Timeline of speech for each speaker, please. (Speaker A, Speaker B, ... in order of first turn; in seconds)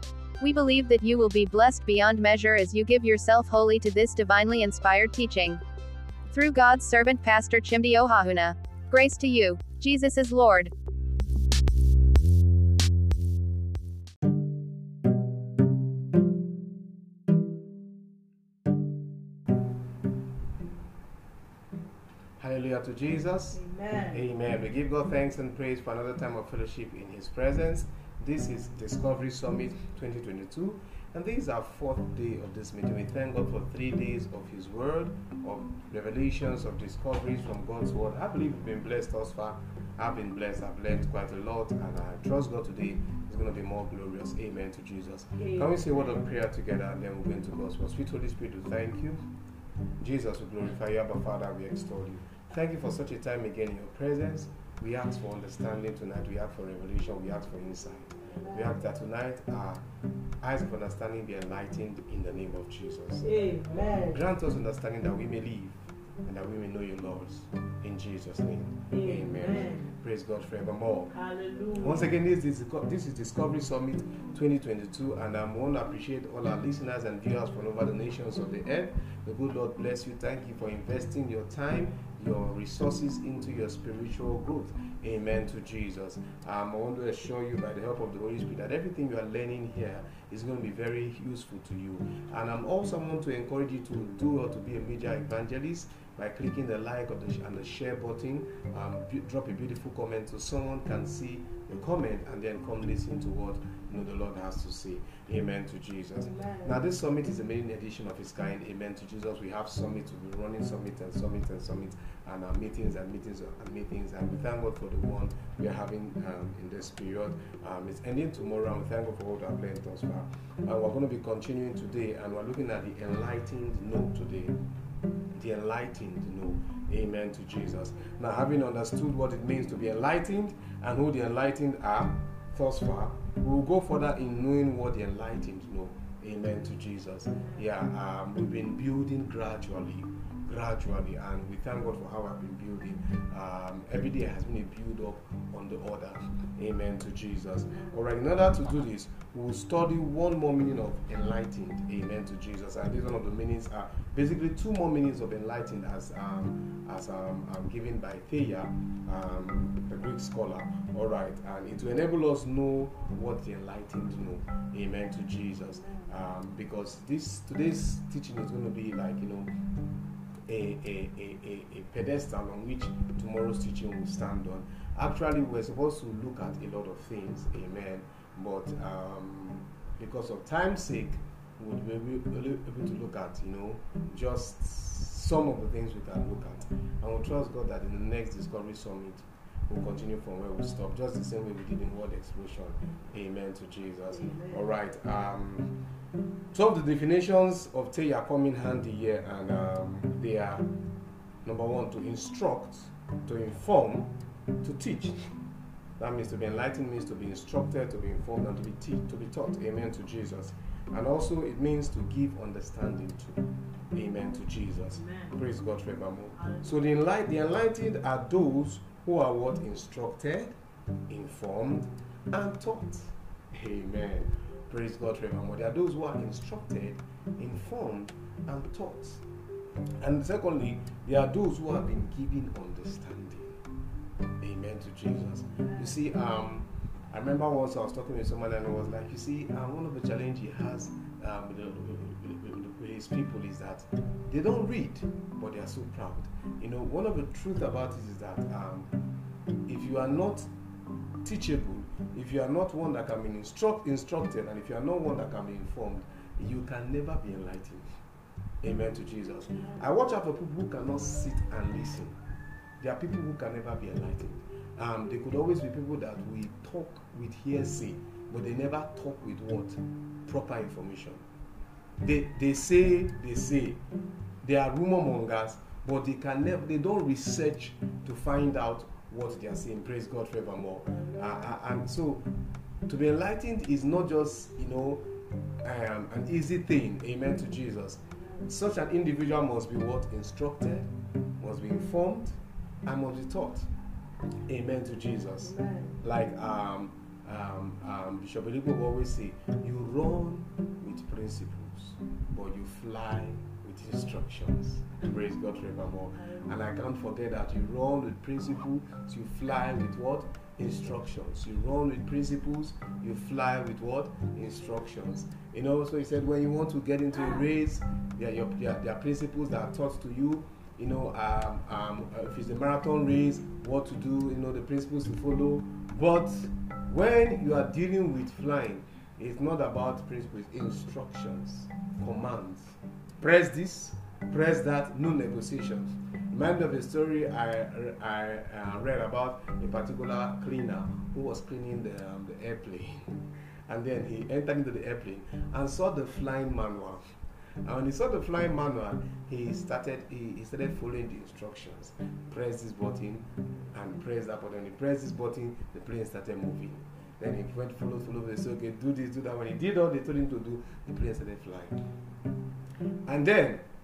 Speaker A: 0.4-5.6, 6.3-10.7
Speaker B: 22.4-49.2, 50.0-59.8, 60.4-63.3, 64.1-71.1, 71.8-124.6, 125.3-169.5, 170.5-195.8, 196.5-200.7, 201.4-205.2, 206.0-220.6, 221.1-229.2, 230.0-233.5, 234.4-248.9, 249.7-250.5, 251.2-257.9, 258.6-262.1, 262.8-271.2, 272.0-273.8, 274.4-282.3, 282.9-285.1, 285.6-293.7, 294.5-347.1, 347.6-361.8, 363.1-363.6
Speaker C: 23.5-24.2, 45.4-46.2, 58.4-58.7, 63.2-64.2, 68.9-69.9, 71.1-72.2, 106.2-106.7, 194.1-194.7, 214.9-215.4, 216.4-216.7, 295.4-295.9